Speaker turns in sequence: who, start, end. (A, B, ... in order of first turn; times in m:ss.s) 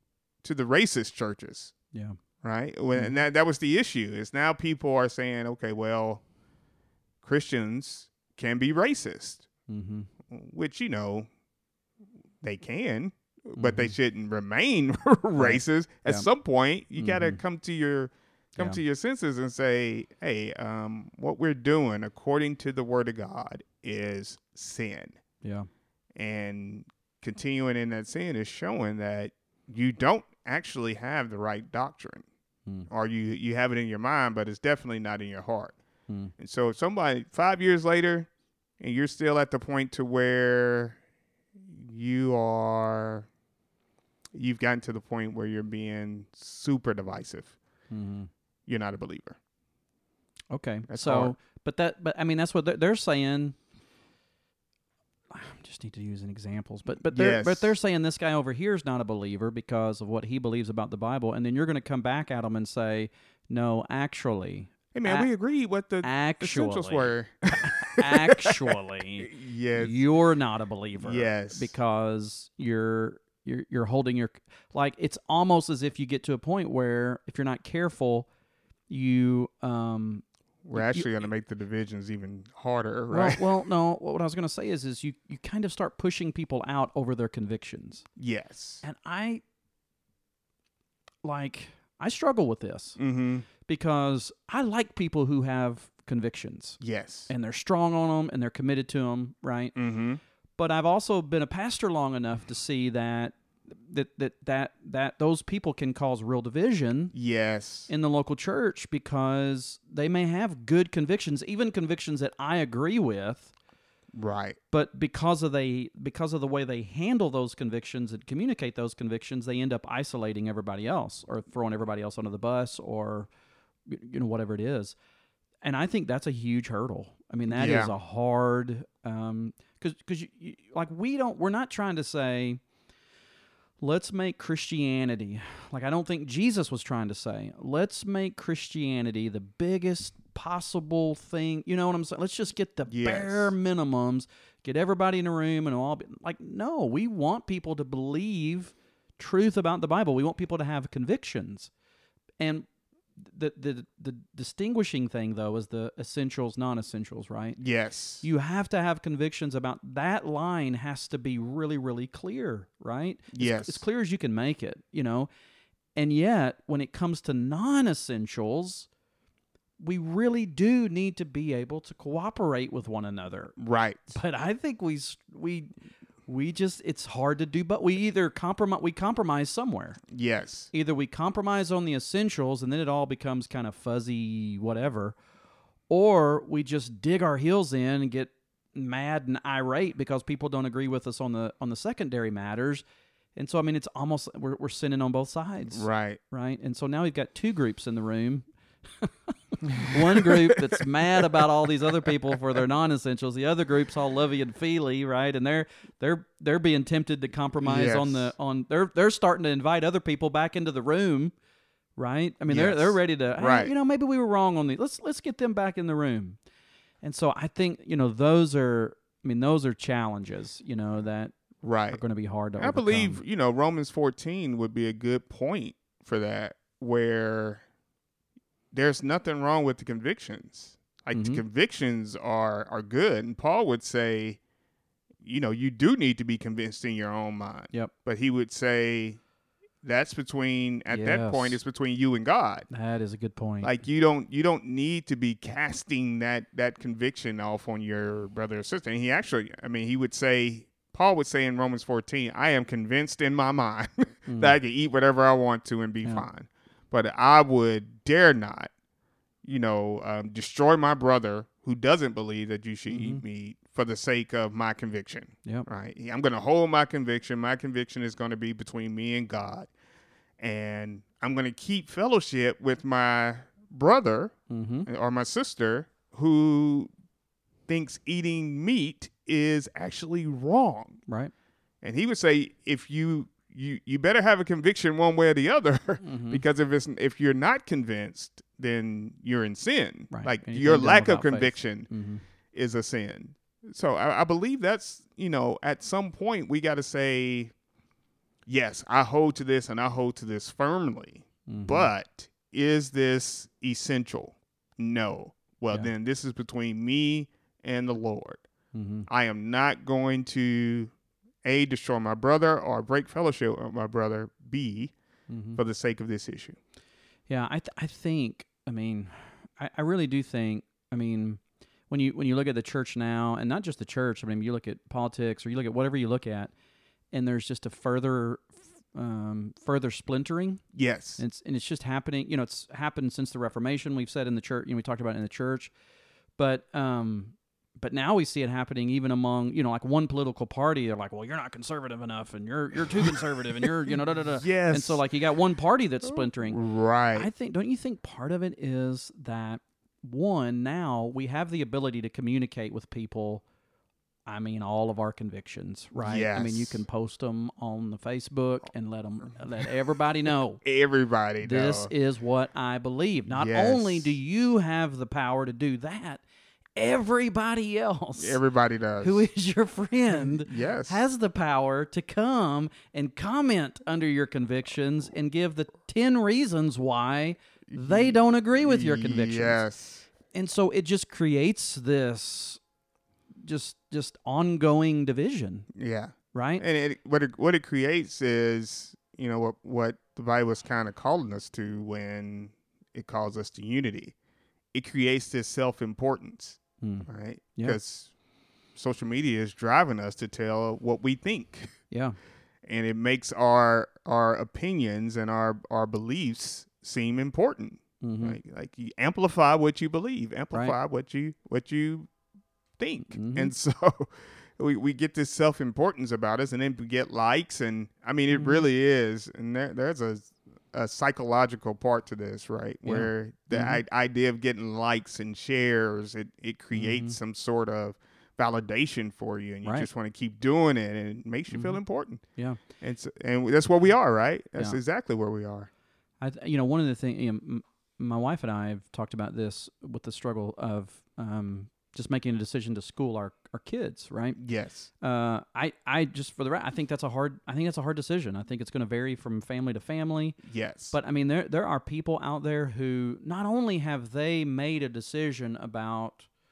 0:00.4-0:01.7 A
0:02.4-0:06.2 A
0:07.2-0:09.5 A
0:09.7-0:10.1 B
0:10.3-0:11.3 A
0:12.4-0:25.2 A
0:13.6-0:13.9 B
0:15.4-0:16.3 B
0:17.0-0:17.4 B
0:25.4-0:25.7 B
0:26.2-0:32.3 A
0:32.9-0:35.8 A
0:36.4-0:38.3 A
0:38.8-0:41.0 A
0:41.7-0:43.3 A
0:44.4-0:47.6 A
0:47.9-0:48.3 B
0:48.7-0:49.4 A
0:50.5-0:53.6 B
0:50.9-0:51.4 A
0:55.3-1:05.3 B
0:57.1-0:57.7 A
1:04.9-1:10.0 A
1:06.0-1:18.3 B
1:11.0-1:11.7 A
1:18.9-1:21.2 B
1:20.6-1:23.6 A
1:23.1-1:28.1 B
1:28.2-1:28.8 A
1:28.8-1:29.4 B
1:31.2-1:33.0 B
1:33.0-1:33.5 A
1:33.6-1:39.8 B
1:36.8-1:37.3 A
1:39.8-1:40.2 A
1:40.6-1:47.2 B
1:47.2-1:47.9 A
1:47.9-1:53.5 B
1:54.1-1:54.6 A
1:54.7-2:03.3 B
2:03.9-2:05.0 B
2:05.6-2:12.6 B
2:07.5-2:07.9 A
2:13.8-2:31.7 B
2:22.9-2:23.6 A
2:32.4-2:32.7 B
2:33.2-2:37.6 B
2:37.6-2:38.2 A
2:38.2-2:45.3 B
2:43.3-2:43.8 A
2:46.0-2:48.9 B
2:49.8-2:53.6 B
2:53.6-2:54.2 A
2:54.1-2:55.7 B
2:56.3-3:00.0 B
3:00.1-3:00.7 A
3:00.7-3:05.2 B
3:05.9-3:12.8 B
3:13.4-3:18.5 B
3:15.7-3:16.2 A
3:19.0-3:31.3 B
3:19.7-3:21.4 A
3:22.0-3:22.4 A
3:27.6-3:28.3 A
3:32.0-3:36.4 B
3:32.5-3:33.7 A
3:37.0-3:41.4 B
3:41.6-3:42.0 A
3:41.9-3:43.2 B
3:42.6-3:47.6 A
3:48.7-3:54.4 A
3:51.1-3:51.4 B
3:55.2-3:59.2 A
3:59.8-4:02.7 A
4:00.9-4:01.6 B
4:02.7-4:03.8 B
4:03.6-4:18.7 A
4:14.3-4:14.6 B
4:19.4-4:29.7 A
4:22.9-4:23.2 B
4:30.4-4:34.3 A
4:34.5-4:34.9 B
4:34.8-4:36.9 A
4:37.7-4:41.0 A
4:41.8-4:51.9 A
4:46.0-4:46.4 B
4:50.1-4:52.2 B
4:52.5-4:57.5 A
4:58.5-5:08.5 A
5:01.5-5:01.9 B
5:08.7-5:09.1 B
5:09.1-5:10.9 A
5:11.4-5:14.9 A
5:15.3-5:15.6 B
5:15.6-5:16.6 A
5:17.3-5:26.5 B
5:27.1-5:30.6 B
5:30.8-5:31.2 A
5:31.2-5:35.7 B
5:36.4-5:46.6 B
5:42.9-5:45.0 A
5:46.0-5:47.3 A
5:47.2-5:53.4 B
5:54.3-6:00.6 B
5:56.0-5:56.8 A
6:00.6-6:01.9 A
6:01.4-6:06.2 B
6:03.3-6:04.2 A
6:06.8-6:08.4 B
6:08.2-6:09.3 A
6:09.0-6:19.6 B
6:10.2-6:11.0 A
6:17.7-6:20.1 A
6:20.3-6:22.6 B
6:23.4-6:25.7 B
6:25.7-6:34.2 A
6:26.3-6:26.6 B
6:34.7-6:38.1 A
6:36.8-6:37.8 B
6:38.8-6:41.7 A
6:41.9-6:42.2 B
6:42.6-6:52.1 A
6:48.0-6:48.4 B
6:52.8-7:12.2 A
6:53.1-6:53.5 B
6:58.3-6:58.6 B
7:02.8-7:03.8 B
7:06.7-7:07.2 B
7:11.5-7:11.8 B
7:12.8-7:15.7 A
7:16.2-7:24.4 B
7:24.4-7:24.9 A
7:25.0-7:30.4 B
7:30.4-7:31.0 A
7:30.9-7:36.3 B